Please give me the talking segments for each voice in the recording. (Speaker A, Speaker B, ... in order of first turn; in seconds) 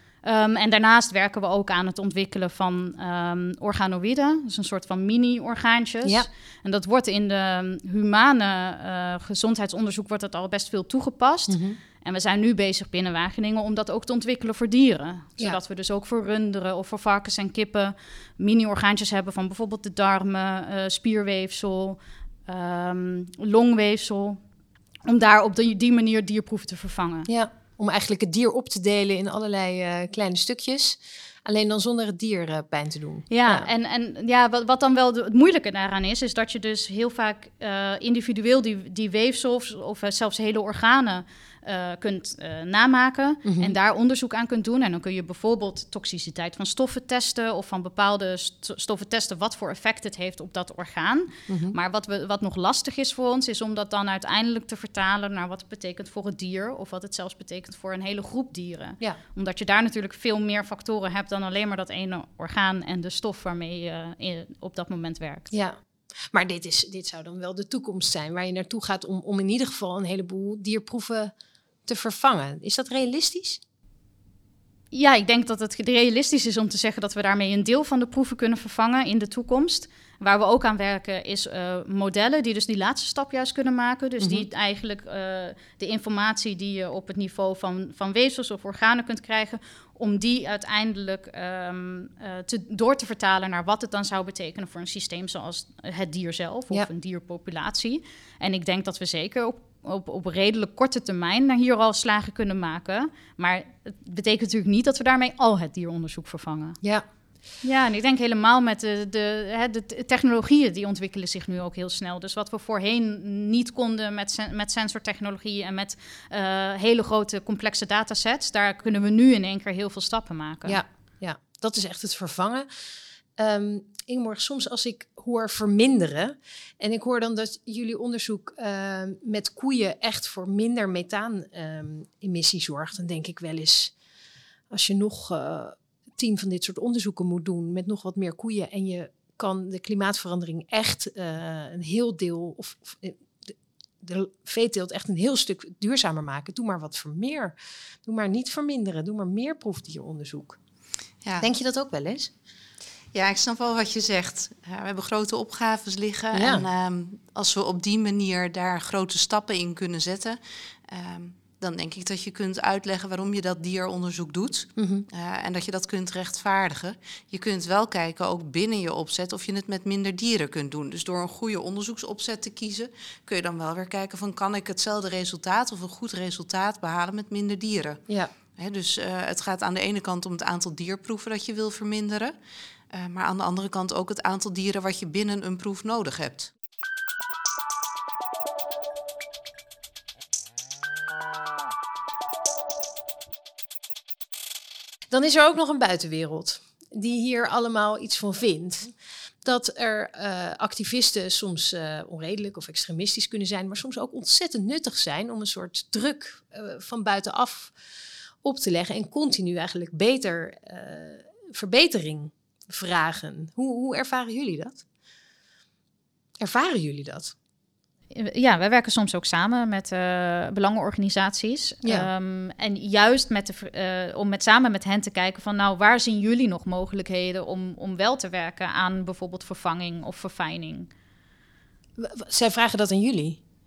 Speaker A: 0.2-24.4, 25.1-27.3, 33.3-65.5, 74.9-106.8, 107.6-120.8, 218.1-230.9
Speaker B: 11.5-11.8, 27.3-33.7, 43.5-43.8, 51.5-51.8, 65.5-65.8, 66.3-71.3, 71.9-73.6, 84.2-84.5, 120.7-122.7, 123.4-133.9, 134.7-150.6, 151.4-152.3, 156.3-156.7, 164.8-165.1, 195.1-207.7, 208.4-214.8, 216.4-217.3, 221.8-222.1, 232.0-233.4
Speaker C: 153.1-178.0, 178.6-182.3, 182.9-186.5